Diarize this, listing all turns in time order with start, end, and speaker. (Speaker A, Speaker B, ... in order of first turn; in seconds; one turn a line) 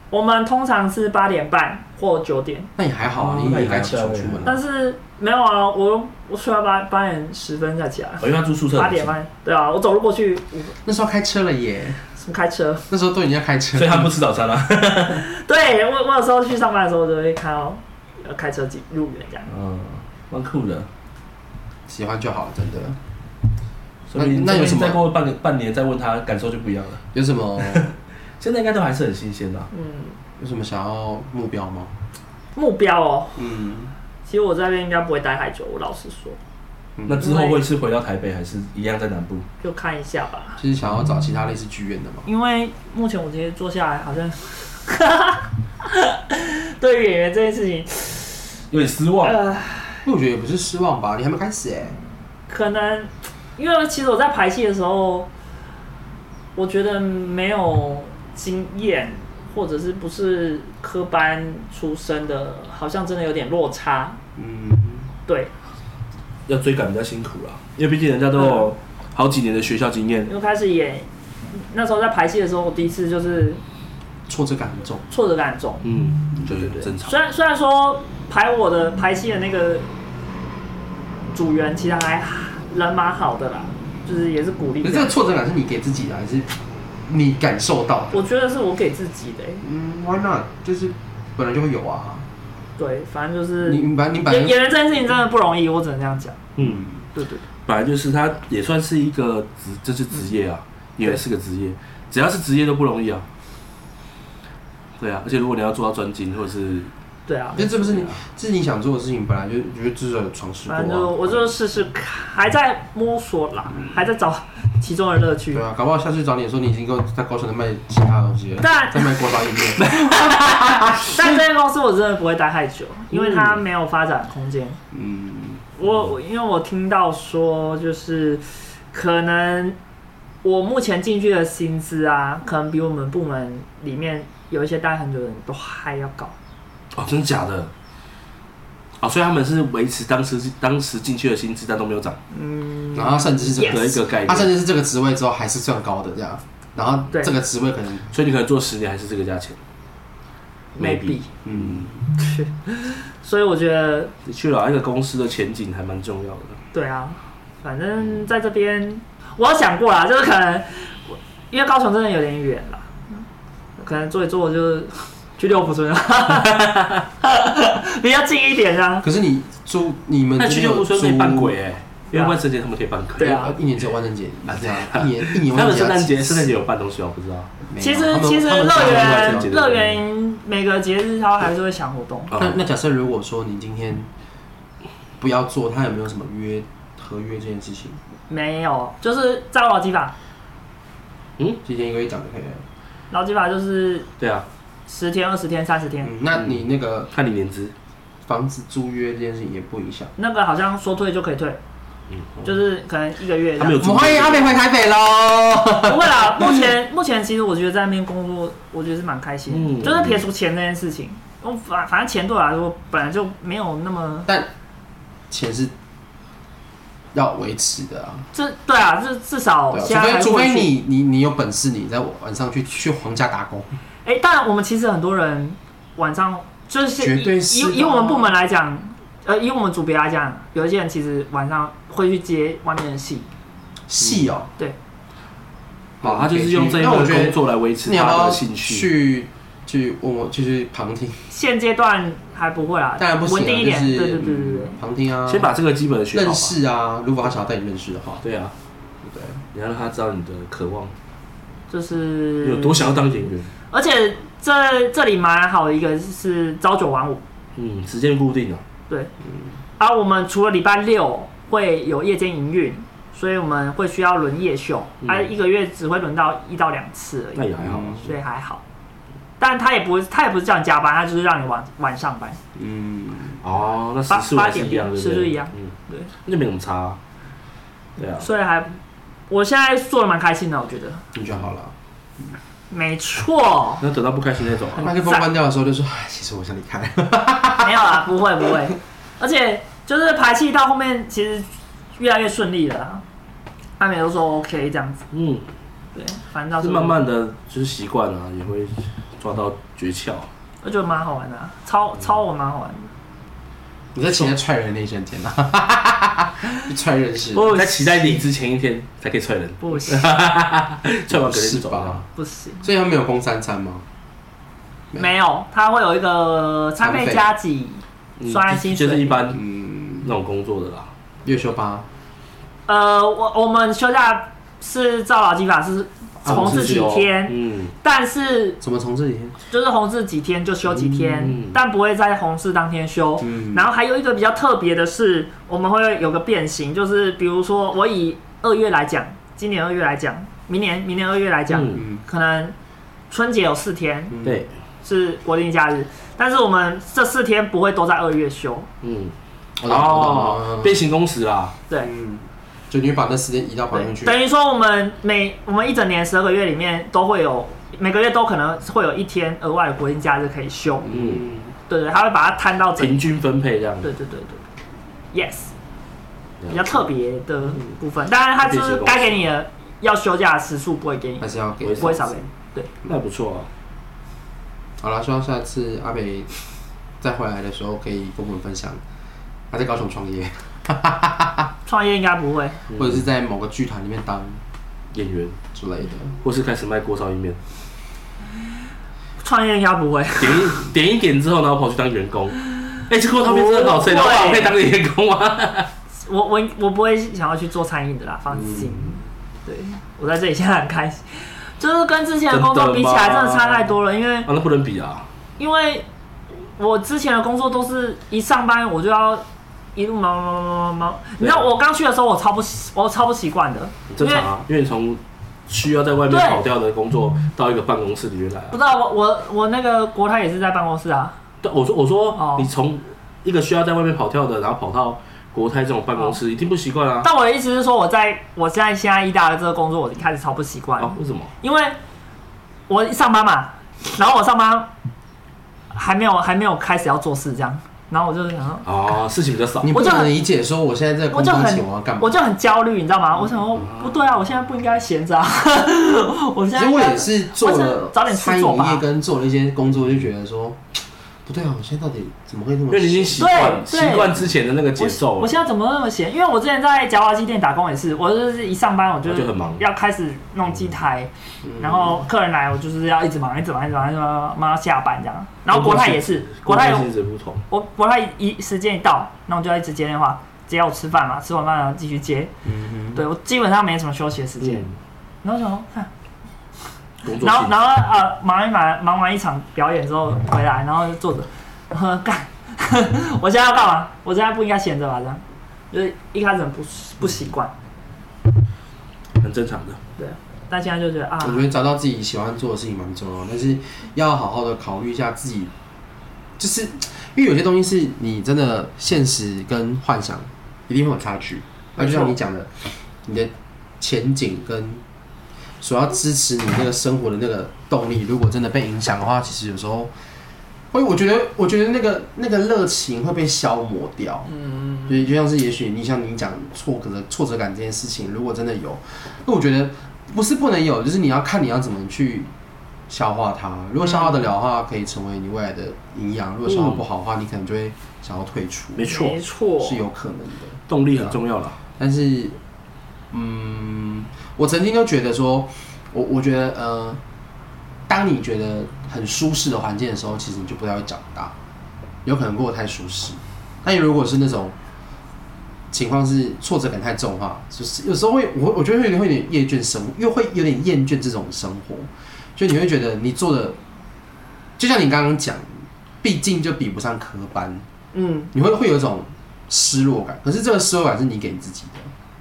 Speaker A: 0.1-2.7
Speaker B: 2.8-4.5
Speaker C: 3.1-4.5
Speaker A: 4.5-10.8
Speaker C: 8.2-9.1
Speaker B: 10.8-12.0
Speaker A: 12.2-12.9
Speaker B: 12.9-14.1
Speaker C: 13.8-15.2
Speaker A: 15.1-19.5
Speaker C: 19.5-20.9
Speaker B: 21.9-23.0
Speaker C: 24.1-27.0
Speaker B: 24.1-25.0
Speaker B: 27.1-27.9
Speaker C: 27.6-29.7
Speaker A: 29.7-30.1
Speaker B: 30.4-31.9
Speaker A: 32.5-33.4
Speaker B: 33.4-33.9
Speaker A: 34.3-36.4
Speaker B: 37.0-37.3
Speaker C: 37.1-39.5
Speaker A: 37.2-37.6
Speaker A: 39.6-40.6
Speaker B: 40.6-42.3
Speaker A: 42.3-48.5
Speaker C: 48.7-49.4
Speaker A: 49.2-50.1
Speaker B: 50.0-52.0
Speaker A: 52.5-55.3
Speaker A: 56.6-64.2
Speaker B: 64.4-65.1
Speaker C: 66.5-70.3
Speaker A: 68.4-68.7
Speaker A: 70.3-73.6
Speaker B: 74.3-75.0
Speaker A: 75.1-75.8
Speaker C: 75.8-77.1
Speaker A: 76.5-79.9
Speaker A: 81.3-85.1
Speaker B: 84.8-88.2
Speaker A: 88.1-89.6
Speaker B: 89.6-92.3
Speaker A: 92.8-96.4
Speaker B: 93.6-94.6
Speaker C: 96.6-96.8
Speaker B: 96.6-97.0
Speaker A: 97.1-97.5
Speaker C: 97.7-103.3
Speaker C: 105.0-106.9
Speaker A: 107.3-108.1
Speaker B: 107.5-111.5
Speaker A: 110.7-115.6
Speaker B: 115.5-121.4
Speaker A: 118.6-119.3
Speaker C: 119.9-120.3
Speaker A: 121.1-124.8
Speaker C: 123.2-123.5
Speaker B: 124.9-125.6
Speaker A: 125.8-129.8
Speaker A: 130.4-136.3
Speaker C: 136.9-137.7
Speaker C: 139.0-142.2
Speaker A: 142.3-143.9
Speaker B: 142.9-148.1
Speaker C: 143.6-144.5
Speaker C: 148.1-149.6
Speaker A: 150.8-151.3
Speaker C: 150.8-151.8
Speaker B: 151.4-152.0
Speaker A: 152.2-154.1
Speaker C: 154.2-156.6
Speaker A: 156.7-163.2
Speaker A: 163.8-166.7
Speaker C: 166.3-167.0
Speaker A: 167.2-169.1
Speaker B: 169.0-171.6
Speaker C: 170.4-173.5
Speaker A: 173.2-173.6
Speaker B: 173.2-176.6
Speaker C: 174.5-177.5
Speaker B: 177.7-179.5
Speaker A: 177.8-182.3
Speaker C: 178.7-180.0
Speaker C: 182.3-182.6
Speaker B: 182.4-184.1
Speaker B: 185.2-188.0
Speaker A: 188.3-190.1
Speaker B: 191.6-192.6
Speaker A: 193.1-194.1
Speaker C: 194.2-194.5
Speaker A: 194.9-196.1
Speaker B: 196.0-197.1
Speaker C: 197.1-197.7
Speaker B: 198.3-200.1
Speaker A: 200.2-201.6
Speaker A: 202.4-203.9
Speaker C: 203.6-204.6
Speaker B: 203.8-206.7
Speaker A: 205.8-214.3
Speaker C: 209.5-210.2
Speaker B: 215.3-215.7
Speaker B: 217.1-218.3
Speaker A: 218.3-220.7
Speaker B: 219.7-223.8
Speaker A: 224.1-233.3
Speaker B: 227.0-228.3
Speaker B: 233.9-234.5
Speaker C: 236.0-238.9
Speaker B: 236.0-241.3
Speaker A: 241.3-244.8
Speaker B: 243.0-245.5
Speaker C: 245.3-246.5
Speaker B: 246.1-248.2
Speaker C: 248.2-248.5
Speaker B: 249.0-249.4
Speaker C: 249.5-250.9
Speaker A: 251.7-253.0
Speaker C: 252.4-253.5
Speaker A: 253.7-257.2
Speaker C: 257.6-258.6
Speaker A: 259.8-268.6
Speaker C: 265.0-265.3
Speaker C: 267.4-268.1
Speaker B: 267.6-268.1
Speaker A: 269.4-272.4
Speaker B: 272.6-273.4
Speaker C: 273.4-275.7
Speaker A: 274.1-276.1
Speaker C: 276.2-277.0
Speaker C: 278.0-278.3
Speaker A: 278.2-278.8
Speaker A: 279.3-281.1
Speaker B: 281.1-282.4
Speaker A: 282.7-283.8
Speaker C: 283.8-284.9
Speaker B: 284.7-287.9
Speaker A: 287.6-293.0
Speaker A: 293.8-295.1
Speaker C: 295.1-295.5
Speaker A: 295.9-297.0
Speaker C: 296.6-300.3
Speaker A: 300.6-302.9
Speaker B: 303.9-307.5
Speaker A: 307.3-308.2
Speaker C: 307.4-312.0
Speaker A: 309.6-310.1
Speaker B: 311.1-312.0
Speaker A: 312.1-312.6
Speaker B: 312.6-313.9
Speaker A: 314.9-319.3
Speaker B: 316.8-317.2
Speaker C: 318.2-319.4
Speaker B: 319.3-320.1
Speaker C: 320.0-320.9
Speaker B: 321.2-321.9
Speaker A: 322.7-328.6
Speaker B: 326.2-327.0
Speaker C: 326.2-327.7
Speaker B: 328.6-329.4
Speaker A: 329.5-342.6
Speaker B: 330.7-331.4
Speaker C: 331.2-331.6
Speaker B: 333.2-333.7
Speaker C: 341.5-341.8
Speaker B: 341.8-342.0
Speaker A: 343.1-344.1
Speaker B: 344.1-344.4
Speaker A: 344.8-348.7
Speaker C: 348.8-351.6
Speaker B: 349.6-350.8
Speaker B: 351.8-354.2
Speaker A: 353.7-360.9
Speaker B: 360.8-361.5
Speaker C: 360.9-361.4
Speaker A: 361.7-363.0
Speaker C: 362.8-363.9
Speaker A: 363.8-364.4
Speaker A: 365.1-365.5
Speaker C: 366.4-366.8
Speaker A: 366.5-372.7
Speaker C: 368.4-369.3
Speaker B: 371.2-372.3
Speaker C: 371.6-372.1
Speaker C: 372.9-373.5
Speaker B: 374.8-376.3
Speaker B: 377.0-378.8
Speaker B: 379.5-381.5
Speaker A: 381.6-382.6
Speaker C: 382.7-383.0
Speaker B: 382.8-384.4
Speaker C: 384.9-385.4
Speaker B: 385.5-386.2
Speaker C: 386.2-387.4
Speaker A: 389.2-390.6
Speaker C: 390.2-395.7
Speaker A: 393.2-394.6
Speaker A: 395.9-404.3
Speaker B: 398.3-398.8
Speaker C: 402.3-405.1
Speaker A: 405.4-405.9
Speaker A: 406.6-414.3
Speaker C: 413.9-418.6
Speaker A: 416.1-416.4
Speaker A: 418.5-421.2
Speaker C: 421.4-427.1
Speaker A: 422.1-422.5
Speaker A: 427.0-431.8
Speaker C: 430.8-431.3
Speaker A: 432.7-434.7
Speaker A: 435.7-438.6
Speaker C: 438.6-439.8
Speaker B: 439.6-442.1
Speaker A: 439.7-440.1
Speaker A: 441.1-448.8
Speaker B: 446.6-453.5
Speaker C: 452.7-455.4
Speaker A: 453.2-466.9
Speaker C: 459.1-459.6
Speaker B: 461.4-462.0
Speaker C: 465.5-467.4
Speaker A: 467.5-472.3
Speaker B: 472.4-473.0
Speaker A: 472.9-474.6
Speaker C: 474.4-474.7
Speaker A: 475.2-475.9
Speaker C: 477.0-477.5
Speaker A: 477.1-487.5
Speaker C: 489.2-489.8
Speaker A: 490.0-491.4
Speaker B: 491.2-495.5
Speaker B: 496.4-504.8
Speaker A: 501.8-502.1
Speaker B: 505.6-509.9
Speaker B: 510.7-514.3
Speaker A: 514.3-514.9
Speaker B: 514.9-522.3
Speaker B: 522.9-528.9
Speaker A: 523.8-524.2
Speaker C: 526.5-526.8
Speaker C: 528.8-529.2
Speaker A: 528.9-529.8
Speaker B: 529.6-531.2
Speaker C: 530.7-531.6
Speaker B: 531.8-532.4
Speaker B: 533.1-537.0
Speaker B: 537.9-541.3
Speaker B: 542.0-544.5
Speaker B: 545.7-553.6
Speaker B: 554.6-557.6
Speaker A: 557.9-558.3
Speaker B: 558.3-561.9